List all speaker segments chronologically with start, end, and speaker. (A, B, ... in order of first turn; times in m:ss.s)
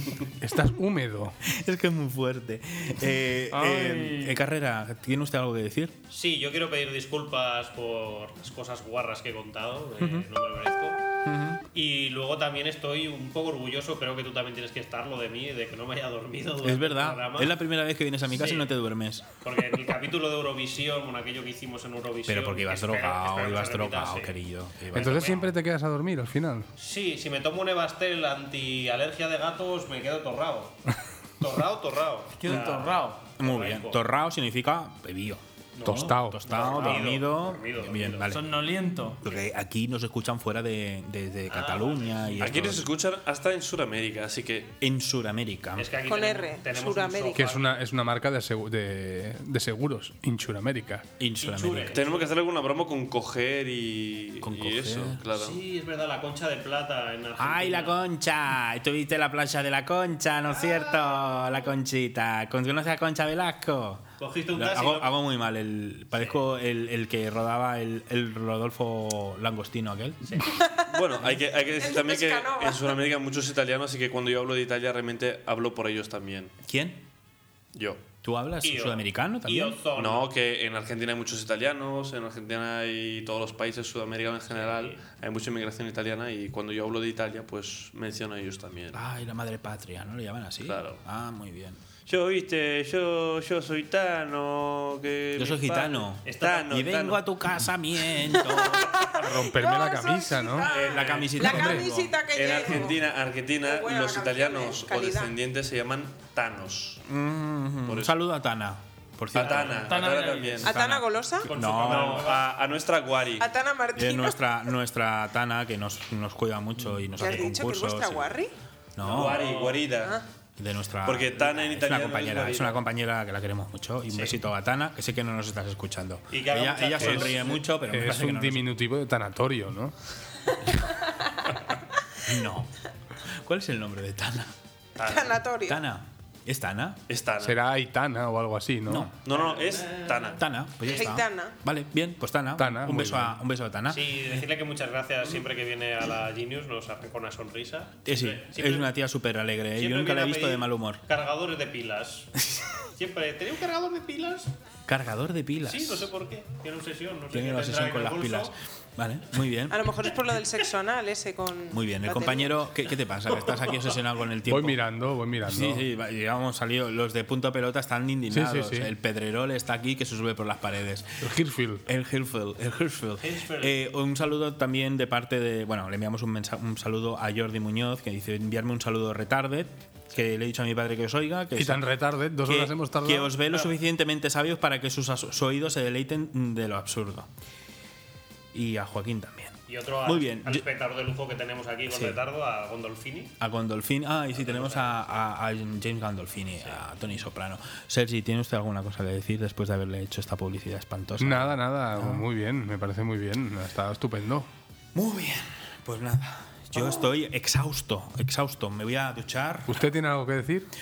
0:00.4-0:01.3 A
0:01.4-0:06.0 B
0:03.5-0:04.4 C
0:06.1-0:11.0 D
0:10.0-0:10.3 B
0:11.2-0:11.6 B
0:11.7-0:17.6 D
0:16.6-0:19.3 B
0:18.3-0:18.7 D
0:19.4-0:24.4 D
0:22.2-0:25.5 B
0:24.9-0:26.7 A
0:25.0-0:25.5 D
0:26.8-0:30.7 D
0:31.4-0:34.0 D
0:32.3-0:33.2 C
0:33.4-0:38.4 B
0:35.8-0:38.4 D
0:35.8-0:36.5 A
0:38.3-0:39.2 C
0:39.2-0:42.9 B
0:41.5-0:42.2 D
0:42.4-0:44.7 E
0:44.8-0:45.9 B
0:45.8-0:47.8 D
0:46.0-0:47.5 F
0:47.3-0:51.1 A
0:51.2-0:52.0 B
0:51.4-0:52.1 C
0:51.4-0:52.1 D
0:51.9-0:55.6 E
0:54.4-0:55.3 B
0:55.4-0:58.0 D
0:57.4-1:10.4 B
1:04.2-1:05.1 D
1:06.1-1:06.4 D
1:10.5-1:10.8 F
1:10.9-1:16.5 E
1:11.8-1:13.0 F
1:16.6-1:17.0 B
1:17.7-1:18.0 E
1:18.2-1:19.8 B
1:18.6-1:20.3 D
1:20.0-1:29.0 E
1:24.5-1:25.0 D
1:28.9-1:31.8 B
1:30.6-1:31.0 E
1:32.1-1:37.2 E
1:35.4-1:38.9 B
1:36.2-1:36.6 D
1:38.3-1:43.0 F
1:39.2-1:40.7 A
1:40.6-1:47.0 E
1:40.7-1:42.0 B
1:41.4-1:41.8 A
1:43.6-1:45.3 F
1:47.0-1:49.9 B
1:47.8-1:48.1 E
1:49.3-1:50.8 E
1:49.7-1:50.7 C
1:50.6-1:51.5 F
1:50.6-1:52.3 B
1:51.5-1:53.5 E
1:51.6-1:52.4 D
1:53.4-1:54.4 F
1:53.9-1:58.3 B
1:57.1-1:58.5 F
1:59.0-1:59.5 B
1:59.0-2:00.2 E
1:59.2-1:59.8 C
1:59.9-2:00.2 F
2:00.6-2:08.7 B
2:01.0-2:02.8 E
2:04.1-2:04.4 D
2:06.3-2:07.6 D
2:07.0-2:07.4 E
2:07.8-2:09.9 A
2:12.2-2:12.7 B
2:13.2-2:14.5 B
2:15.0-2:15.3 E
2:15.0-2:15.8 F
2:15.6-2:17.0 B
2:17.1-2:17.6 E
2:17.4-2:19.1 A
2:18.9-2:19.1 B
2:19.2-2:20.4 E
2:19.3-2:20.4 D
2:20.3-2:24.3 B
2:20.9-2:21.6 F
2:22.6-2:23.4 A
2:23.9-2:28.9 D
2:28.0-2:31.0 B
2:29.8-2:32.3 D
2:32.4-2:32.7 B
2:33.0-2:34.5 D
2:34.9-2:36.1 B
2:35.6-2:38.5 D
2:37.3-2:39.9 B
2:39.7-2:42.6 F
2:41.7-2:44.8 B
2:44.5-2:45.8 A
2:45.4-2:51.3 B
2:48.3-2:48.9 A
2:51.2-2:51.8 A
2:51.9-3:01.8 B
2:53.2-2:53.8 D
3:01.6-3:03.4 A
3:02.4-3:07.3 B
3:08.5-3:10.7 B
3:09.7-3:13.3 D
3:11.9-3:12.2 B
3:13.4-3:22.2 B
3:14.4-3:15.0 D
3:21.2-3:24.5 A
3:24.9-3:29.8 B
3:29.7-3:30.7 A